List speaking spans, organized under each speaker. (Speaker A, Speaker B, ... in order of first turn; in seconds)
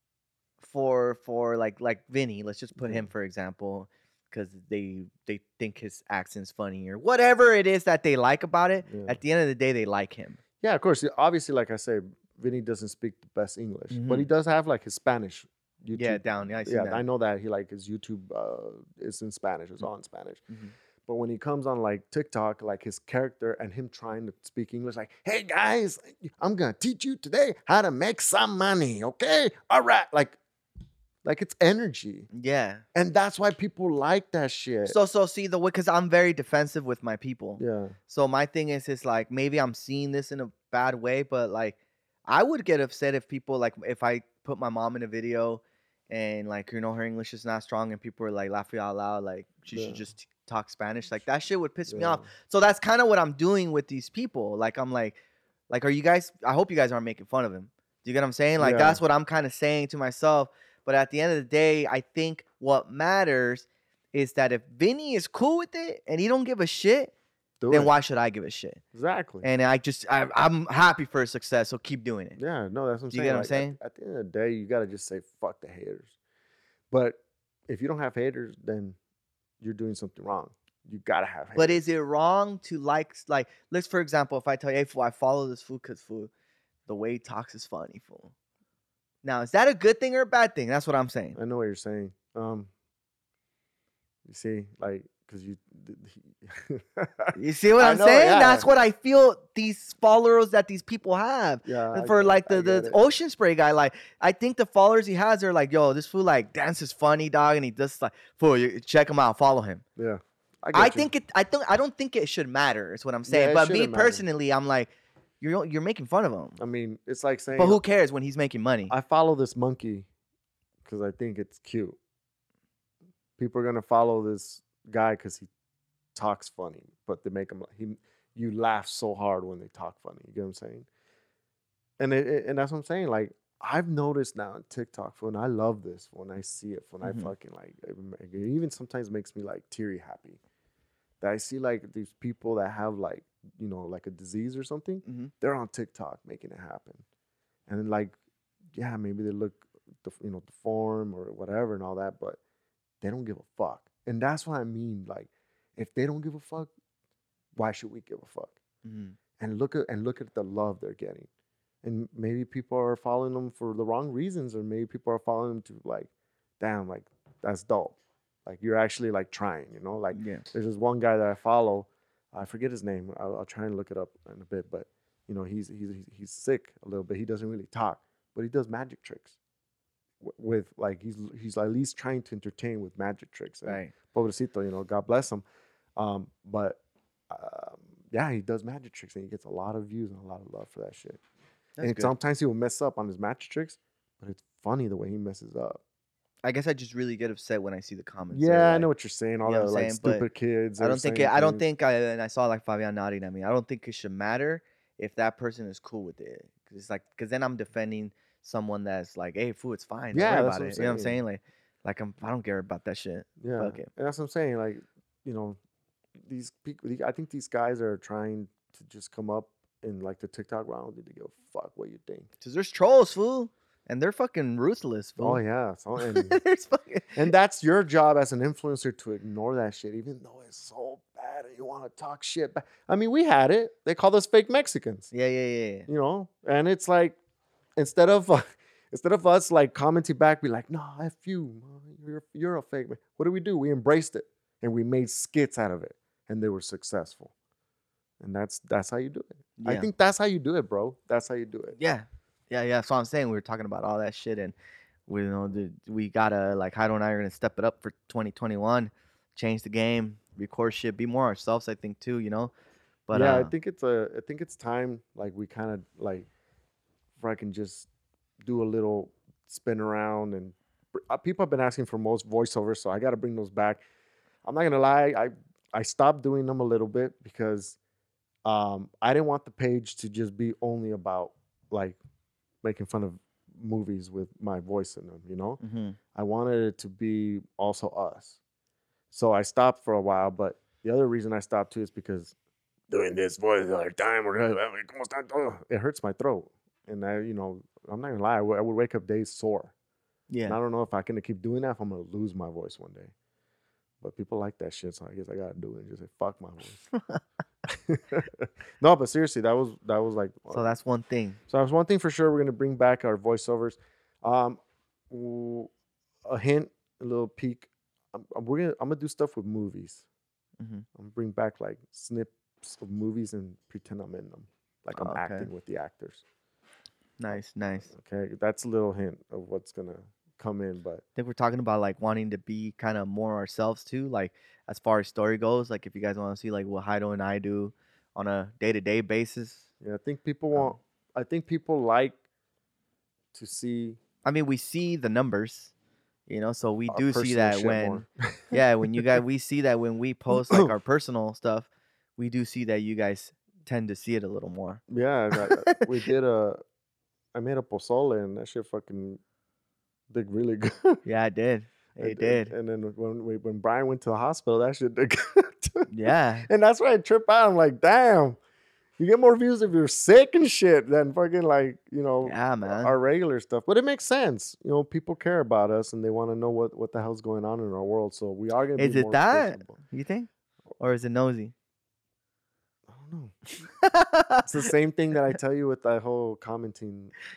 Speaker A: 0.6-10.4, 13.9-14.3, 15.9-17.0, 32.3-32.8, 34.9-41.8, 42.3-55.2, 55.7-67.1, 67.7-68.8, 69.4-72.4, 73.1-73.8, 81.5-86.3, 86.9-88.3, 89.2-91.4, 97.3-109.8, 110.7-116.6, 117.5-118.9, 137.0-137.3, 145.0-145.3, 158.8-159.2, 170.1-170.4, 183.7-183.9, 191.8-192.1, 196.4-198.9, 199.4-200.2, 200.8-213.9, 222.4-225.4, 226.0-227.2, 235.1-235.9, 249.6-249.9, 251.8-254.5, 255.1-262.5, 263.1-263.5, 285.6-286.0, 300.3-300.6, 306.9-307.2, 310.5-311.4, 320.6-320.9, 324.9-325.5, 327.2-327.9, 331.1-339.6, 344.2-345.7, 346.3-354.8, 355.4-355.9, 361.0-362.5, 365.9-366.5, 372.2-372.9, 378.8-380.3, 380.8-381.5, 383.6-384.5
Speaker B: 2.8-3.1, 8.8-9.2, 10.6-20.5, 21.1-30.4, 31.2-32.3, 32.9-35.0, 37.6-38.0, 49.7-50.0, 51.9-52.3, 58.6-59.0, 67.6-67.9, 68.9-69.5, 72.4-76.1, 76.9-79.0, 79.6-81.8, 91.3-92.7, 94.2-98.7, 101.6-103.0, 110.0-111.1, 113.3-114.2, 116.6-117.8, 118.9-120.1, 120.8-122.0, 123.4-125.5, 126.1-130.9, 132.0-140.4, 141.2-147.0, 147.7-148.1, 148.7-152.4, 153.0-156.7, 157.6-158.6, 159.4-161.3, 161.8-179.3, 180.2-185.4, 185.9-191.2, 191.8-195.8, 198.3-201.6, 210.1-211.2, 213.4-215.6, 216.2-222.3, 225.2-226.4, 227.2-235.1, 235.9-237.2, 237.8-247.3, 248.2-251.8, 263.1-266.3, 267.2-267.9, 268.4-273.8, 274.4-277.8, 278.4-282.0, 282.6-285.6, 286.1-288.4, 289.1-292.3, 292.9-299.7, 300.5-303.1, 304.0-306.8, 307.7-310.6, 311.5-315.7, 316.2-320.0, 320.9-326.2, 327.3-331.0, 339.8-342.2, 343.3-344.0, 346.9-349.0, 350.3-350.7, 354.9-356.6, 357.3-359.2, 360.1-361.0, 361.9-368.4, 369.0-379.8, 382.9-383.4, 384.4-387.1